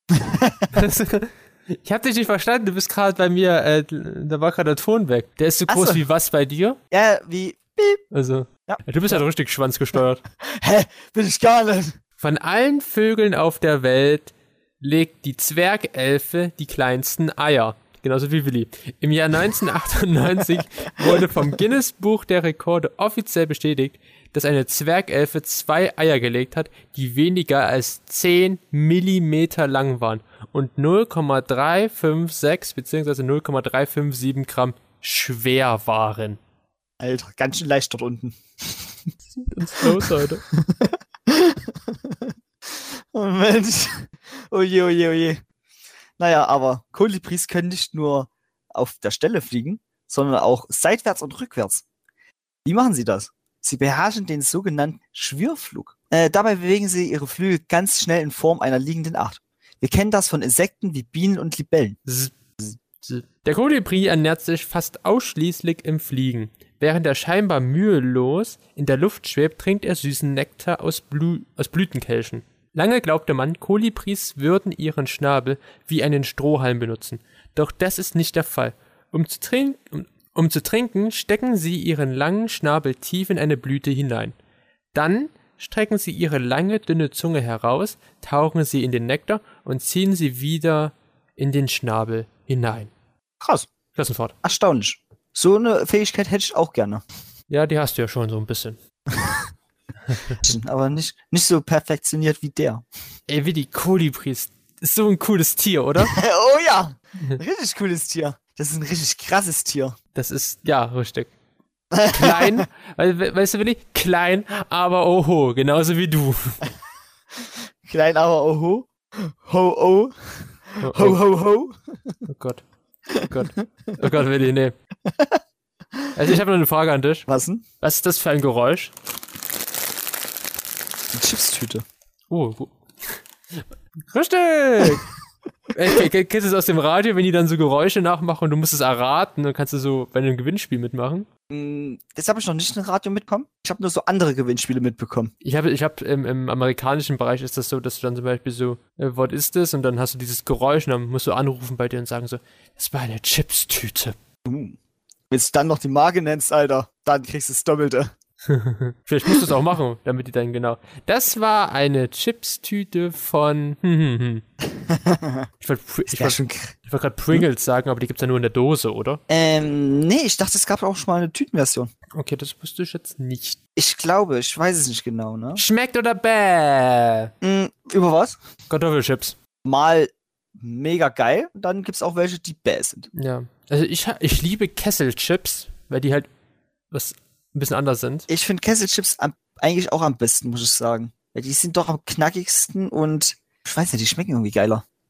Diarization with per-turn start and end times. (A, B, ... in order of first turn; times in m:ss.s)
0:00.1-0:00.8 A
0:00.7-0:06.8 B
0:05.7-0:06.0 A
0:06.9-0:08.0 A
0:08.1-0:10.2 B
0:08.7-0:09.2 A
0:10.4-0:12.0 A
0:12.2-0:36.4 B
0:37.0-0:39.0 A
0:39.3-0:40.4 B
0:39.8-0:45.4 A
0:46.2-0:51.8 A
0:52.6-1:02.0 A
1:02.0-1:02.4 B
1:03.0-1:24.3 B
1:24.9-1:32.9 B
1:33.4-1:33.7 A
1:33.9-1:34.3 B
1:34.4-1:37.0 A
1:37.5-1:38.8 B
1:39.1-1:39.5 A
1:40.1-1:40.5 B
1:40.4-1:42.8 A
1:43.3-1:46.2 B
1:46.1-1:50.0 A
1:50.1-1:51.3 B
1:51.9-1:52.6 A
1:52.1-1:56.6 B
1:57.4-2:02.2 A
2:00.8-2:01.2 B
2:02.2-2:02.6 B
2:03.1-2:03.9 A
2:03.2-2:04.7 B
2:05.0-2:05.4 A
2:06.1-2:07.2 B
2:07.3-2:07.6 A
2:07.8-2:08.9 B
2:11.1-2:11.8 A
2:12.3-2:15.0 B
2:14.8-2:15.0 A
2:15.7-2:21.2 B
2:21.5-2:25.3 A
2:25.4-2:34.2 B
2:34.4-2:34.8 A
2:35.3-2:38.1 A
2:38.5-2:44.4 B
2:44.7-2:45.5 A
2:45.6-2:49.2 B
2:46.1-2:46.7 A
2:49.3-2:51.9 A
2:52.1-2:53.6 B
2:53.8-2:55.6 A
2:55.5-2:57.3 B
2:57.4-2:58.4 A
2:58.7-2:59.3 B
2:59.6-3:03.1 A
3:03.1-3:06.3 B
3:06.9-3:08.3 B
3:08.3-3:14.8 A